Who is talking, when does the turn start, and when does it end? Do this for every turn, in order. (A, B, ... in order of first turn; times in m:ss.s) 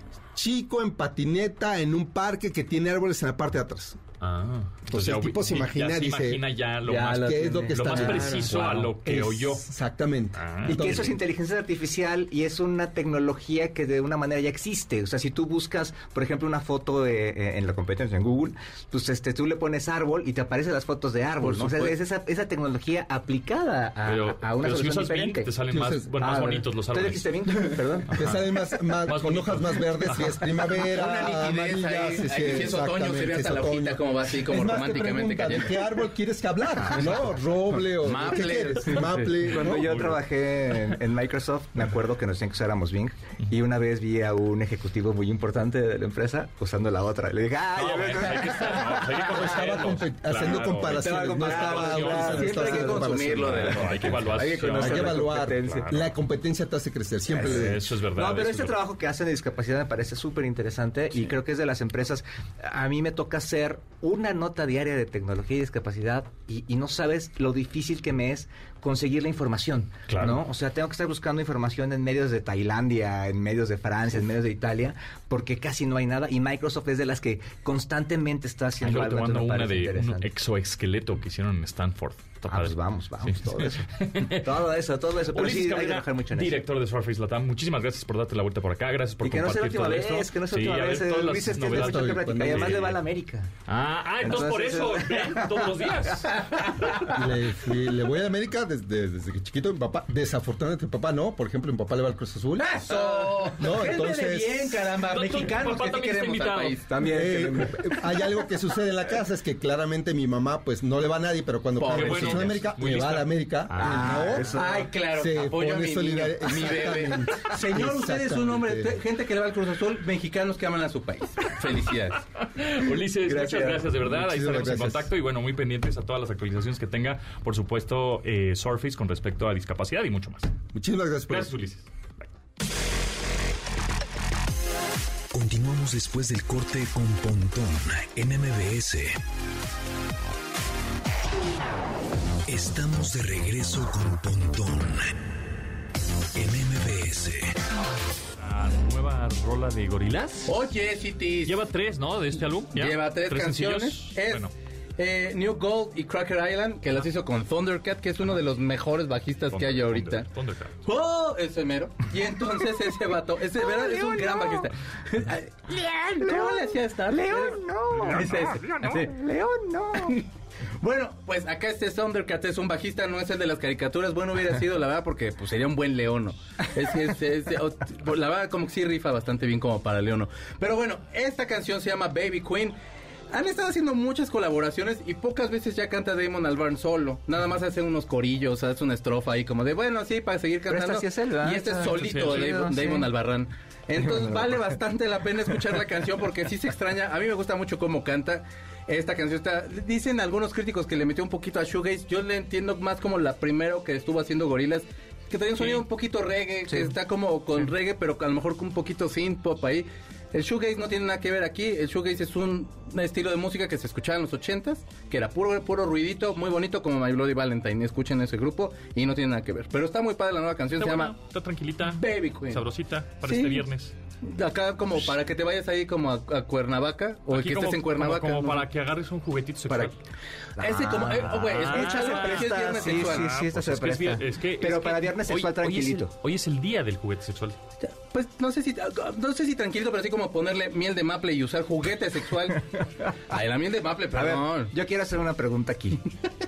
0:00.3-0:04.0 A
0:04.2-0:09.6 B
0:04.9-0:11.2 A
0:06.8-0:08.8 C
0:10.3-0:11.1 B
0:10.6-0:25.5 C
0:21.4-0:22.0 D
0:24.0-0:28.4 B
0:25.7-0:26.1 A
0:26.2-0:28.3 C
0:28.1-0:40.1 A
0:29.0-0:30.4 B
0:30.7-0:35.9 D
0:38.0-0:39.4 D
0:38.9-0:49.8 C
0:39.4-0:40.2 B
0:47.7-0:52.6 B
0:49.2-0:57.8 A
0:50.8-0:55.9 C
0:52.0-0:53.9 D
0:53.7-0:56.1 B
0:57.3-1:20.3 C
0:57.4-0:58.8 B
1:10.1-1:10.4 B
1:18.8-1:24.6 B
1:22.5-1:26.6 C
1:25.3-1:33.0 B
1:29.2-1:33.5 C
1:31.6-1:33.0 A
1:33.6-1:36.4 B
1:34.2-1:37.1 C
1:37.1-1:42.8 A
1:42.7-1:46.8 D
1:42.8-1:48.4 C
1:43.6-1:44.7 A
1:45.1-1:46.8 B
1:47.0-1:59.0 A
1:51.8-1:52.6 D
1:51.9-1:54.2 B
1:53.7-1:54.9 C
1:53.9-2:02.2 D
2:02.4-2:10.5 B
2:03.2-2:04.0 C
2:04.0-2:05.1 A
2:10.7-2:11.5 A
2:11.3-2:11.9 B
2:15.3-2:19.2 E
2:22.5-2:25.1 E
2:26.3-2:27.5 E
2:28.4-2:30.6 B
2:30.5-2:31.5 D
2:31.4-2:34.5 B
2:32.8-2:40.3 D
2:39.5-2:40.7 B
2:40.8-2:49.1 D
2:43.6-2:44.7 C
2:45.7-2:50.2 C
2:47.9-2:49.0 B
2:50.0-2:50.2 D
2:50.8-3:02.7 D
3:03.3-3:41.1 D
3:10.7-3:13.1 C
3:11.9-3:12.5 B
3:13.9-3:14.7 C
3:25.6-3:25.8 B
3:40.8-3:43.9 B
3:41.8-3:42.7 D
3:43.2-3:43.6 D
3:44.2-3:48.6 D
3:47.3-3:49.9 B
3:50.6-3:56.1 C
3:50.6-3:53.3 D
3:51.2-3:57.6 B
3:57.8-4:02.7 D
4:03.3-4:04.7 D
4:04.1-4:06.0 C